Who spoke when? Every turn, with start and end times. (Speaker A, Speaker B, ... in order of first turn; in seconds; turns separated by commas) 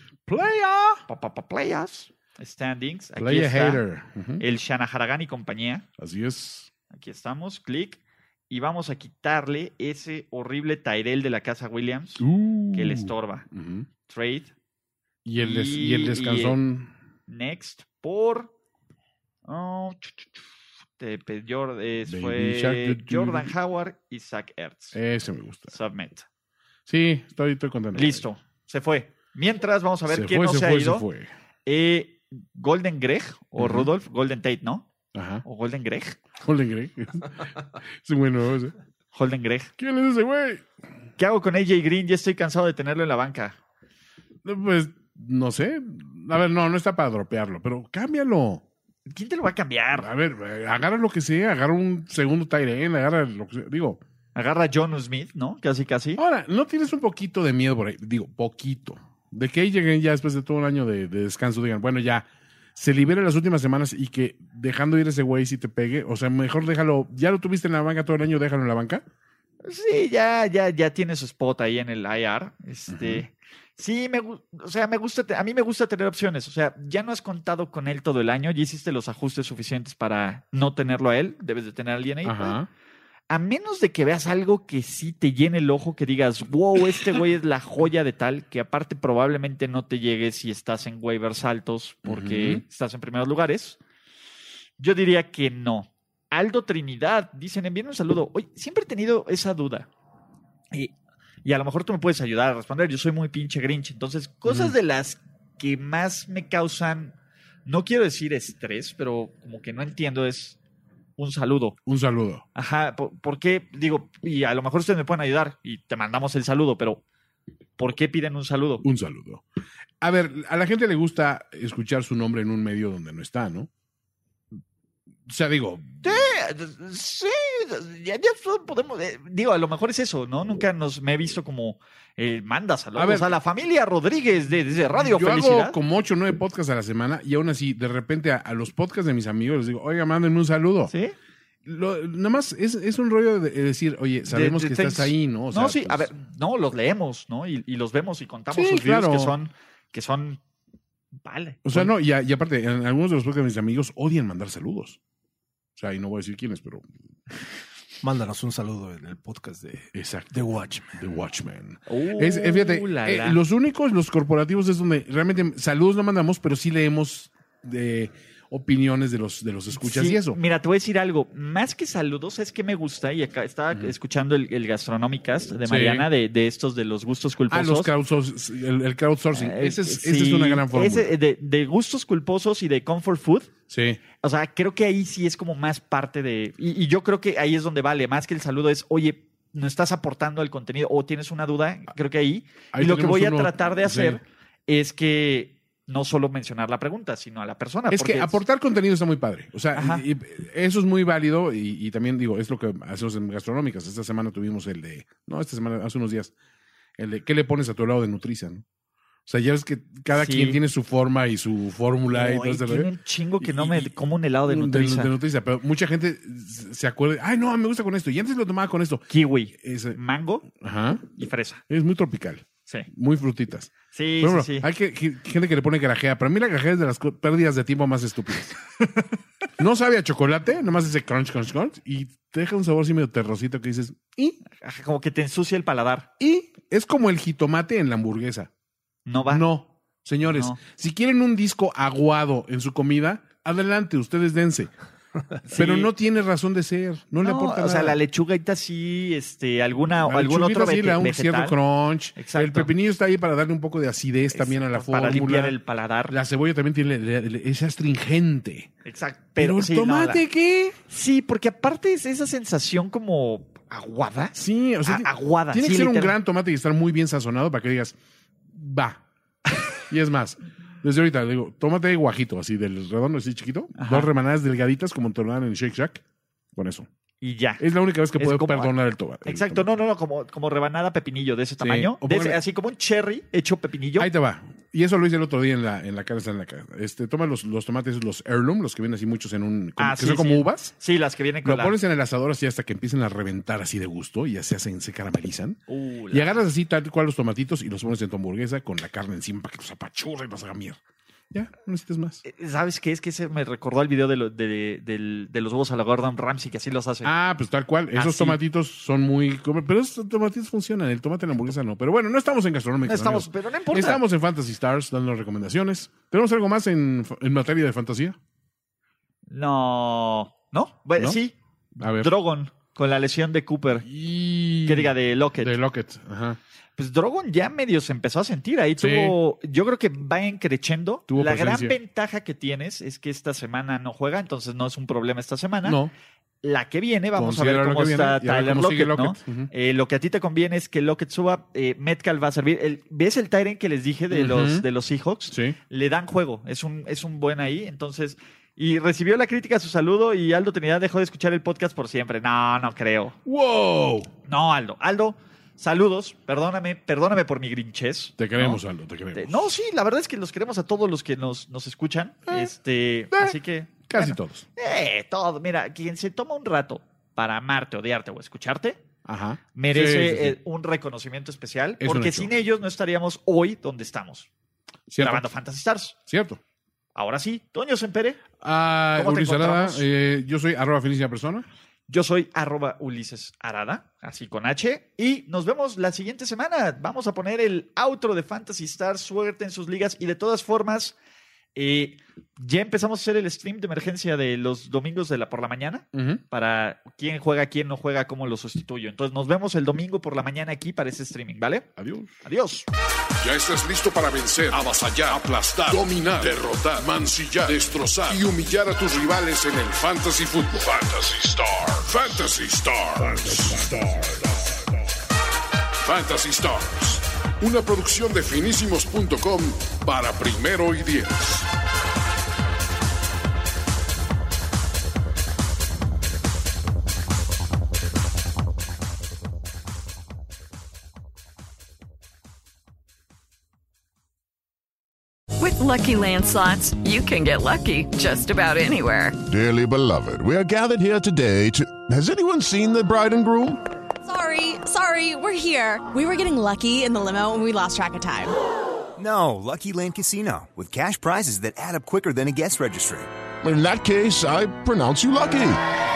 Speaker A: 0.3-1.1, Speaker B: 1.1-3.8, Speaker A: 3.2-4.4, Speaker B: 4.4-5.8, Speaker A: 6.0-6.7, Speaker B: 6.9-13.5, Speaker A: 12.2-13.9, Speaker B: 14.1-14.5, Speaker A: 15.2-16.9, Speaker B: 15.4-16.6, Speaker B: 17.3-18.5, Speaker B: 19.5-20.4, Speaker B: 21.0-25.0, Speaker A: 22.1-23.5, Speaker A: 24.9-25.8, Speaker B: 25.7-26.3, Speaker A: 26.9-28.2, Speaker B: 27.9-31.1, Speaker A: 30.1-31.3, Speaker B: 31.7-34.9, Speaker A: 33.6-33.9, Speaker A: 35.1-35.5, Speaker B: 35.5-36.2, Speaker A: 36.4-38.8, Speaker B: 39.1-39.7, Speaker A: 39.8-40.6, Speaker B: 41.2-43.6, Speaker A: 44.4-48.6, Speaker B: 49.1-50.1, Speaker A: 50.0-54.0, Speaker B: 54.4-56.2, Speaker A: 56.2-69.0, Speaker B: 69.6-82.6, Speaker A: 72.9-73.2, Speaker A: 82.2-82.7, Speaker B: 83.3-93.8, Speaker A: 92.0-92.6, Speaker B: 94.8-99.9, Speaker B: 101.4-107.2, Speaker A: 104.5-104.7, Speaker B: 107.7-110.6, Speaker B: 111.2-111.8, Speaker A: 111.9-112.5, Speaker B: 112.5-117.0, Speaker B: 117.8-118.8, Speaker A: 118.8-119.4, Speaker A: 120.0-123.7, Speaker A: 125.3-126.0, Speaker B: 126.0-135.8, Speaker A: 133.0-133.3, Speaker A: 135.1-140.9, Speaker B: 140.9-141.2, Speaker A: 141.7-146.1, Speaker B: 144.3-150.4, Speaker A: 148.5-149.4, Speaker B: 151.2-151.9, Speaker A: 151.7-155.0, Speaker A: 155.8-156.9, Speaker C: 158.0-161.0, Speaker A: 159.9-170.4, Speaker B: 161.9-163.4, Speaker B: 169.8-177.9, Speaker A: 175.7-176.1, Speaker A: 177.5-181.1, Speaker B: 179.3-183.5, Speaker A: 183.7-184.0, Speaker B: 184.2-198.4, Speaker A: 192.7-194.2, Speaker A: 197.9-206.3, Speaker B: 199.7-200.0, Speaker A: 207.0-208.6, Speaker A: 209.3-213.9, Speaker B: 210.1-210.6, Speaker B: 212.1-215.1, Speaker A: 214.5-221.1, Speaker B: 219.1-220.5, Speaker B: 221.2-221.6, Speaker A: 221.7-228.6, Speaker B: 223.9-224.7, Speaker B: 228.8-229.1, Speaker A: 229.6-234.4, Speaker B: 234.5-236.1, Speaker A: 236.2-238.5, Speaker B: 239.1-239.4, Speaker A: 239.3-244.7, Speaker B: 240.3-240.6, Speaker B: 245.5-245.9, Speaker A: 245.5-248.0, Speaker B: 247.2-251.6, Speaker A: 250.0-255.6, Speaker B: 252.2-252.7, Speaker B: 254.3-256.1, Speaker A: 256.1-258.7, Speaker B: 258.9-260.2, Speaker A: 259.4-260.8, Speaker B: 260.9-266.2, Speaker A: 264.4-268.0, Speaker A: 268.5-269.0, Speaker A: 269.9-276.0, Speaker B: 273.8-274.1, Speaker A: 276.6-276.9, Speaker B: 277.2-277.6, Speaker A: 277.6-279.7, Speaker B: 278.2-284.1, Speaker A: 281.6-282.4, Speaker A: 284.0-290.8, Speaker B: 289.8-291.8, Speaker A: 291.4-300.8, Speaker B: 295.7-296.4, Speaker A: 301.3-302.2, Speaker B: 302.2-307.1, Speaker A: 307.0-318.2, Speaker B: 307.9-308.4, Speaker B: 312.9-314.0, Speaker B: 319.3-321.4, Speaker A: 321.8-322.1, Speaker B: 322.0-323.9, Speaker A: 323.8-326.4, Speaker B: 324.6-325.5, Speaker B: 326.8-335.8, Speaker A: 328.8-329.2, Speaker A: 331.1-331.8, Speaker A: 335.6-335.9, Speaker B: 336.4-353.2, Speaker A: 337.2-339.5, Speaker A: 344.1-344.7, Speaker A: 345.3-345.6, Speaker A: 353.3-354.1, Speaker B: 354.3-358.6, Speaker A: 358.2-359.6, Speaker B: 359.1-368.8, Speaker A: 363.1-364.5, Speaker A: 369.1-370.4, Speaker B: 369.6-374.3, Speaker A: 371.8-372.3, Speaker A: 374.9-375.2, Speaker B: 375.0-375.9, Speaker A: 376.1-376.4, Speaker B: 376.9-378.2, Speaker A: 378.4-381.5, Speaker B: 378.9-379.9, Speaker B: 381.9-391.0, Speaker B: 391.6-401.7, Speaker A: 395.9-396.2, Speaker A: 401.8-402.1, Speaker B: 402.2-402.7, Speaker D: 403.2-414.6, Speaker D: 415.8-421.5, Speaker E: 435.4-439.2, Speaker F: 439.3-443.6, Speaker G: 444.0-448.4, Speaker H: 449.0-453.1, Speaker F: 453.4-455.6